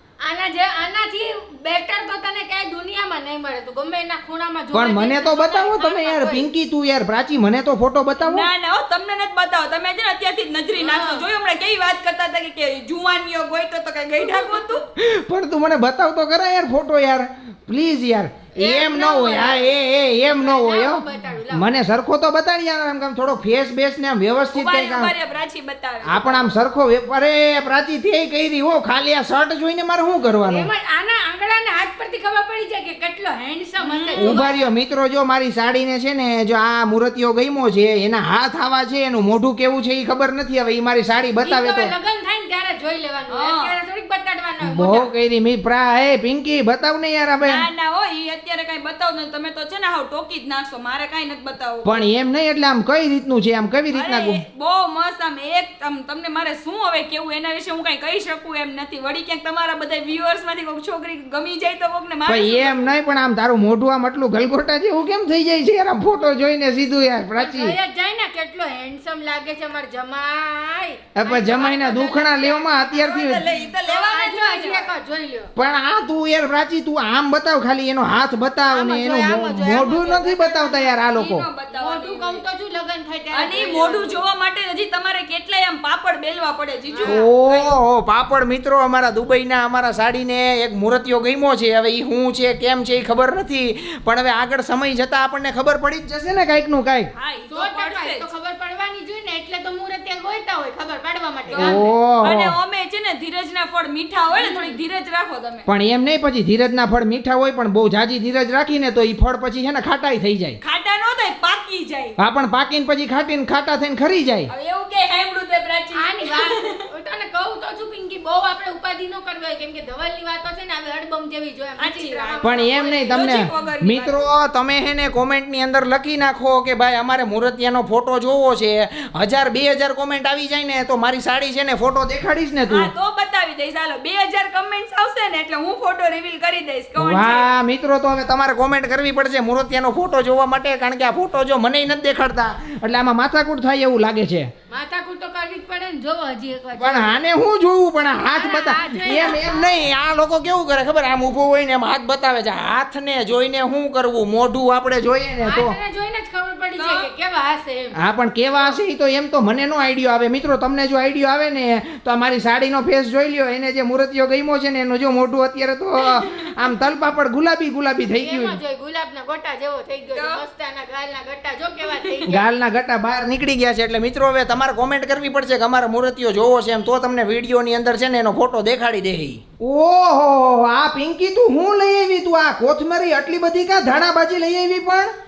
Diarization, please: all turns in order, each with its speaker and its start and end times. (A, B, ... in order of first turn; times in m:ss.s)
0:00.2-0:06.5 A
0:04.7-0:08.5 B
0:08.2-0:14.8 C
0:10.7-0:11.2 A
0:14.2-0:14.8 A
0:15.0-0:25.1 B
0:18.5-0:19.7 A
0:19.1-0:19.7 C
0:20.3-0:21.7 A
0:24.5-0:26.5 C
0:26.0-0:30.7 B
0:30.4-0:34.7 A
0:33.8-0:34.4 C
0:34.1-0:41.9 B
0:41.4-0:45.1 A
0:43.3-0:43.7 C
0:44.6-0:47.6 B
0:47.4-0:51.9 C
0:51.8-0:54.4 B
0:53.9-1:02.9 C
1:02.3-1:07.8 B
1:07.4-1:13.0 A
1:11.1-1:13.5 B
1:12.9-1:14.9 C
1:13.8-1:15.5 A
1:15.6-1:21.5 B
1:18.7-1:21.0 A
1:21.1-1:22.4 C
1:21.7-1:24.2 A
1:23.3-1:27.8 C
1:26.9-1:27.3 A
1:27.0-1:37.1 B
1:37.1-1:38.3 C
1:37.5-1:41.9 A
1:41.5-1:45.7 C
1:41.6-1:42.5 B
1:44.3-1:44.8 A
1:45.6-1:50.6 B
1:50.6-1:52.2 C
1:52.2-1:54.5 B
1:54.5-1:56.7 C
1:55.9-2:03.4 A
2:01.8-2:04.2 C
2:02.4-2:12.9 B
2:12.7-2:17.5 C
2:17.0-2:24.5 B
2:24.7-2:27.2 A
2:26.8-2:35.7 B
2:28.2-2:29.8 A
2:35.4-2:37.9 A
2:36.8-2:37.1 C
2:38.0-2:48.6 B
2:46.0-2:46.4 C
2:48.1-2:52.4 A
2:50.1-2:50.4 C
2:51.8-2:52.4 C
2:52.3-3:05.1 B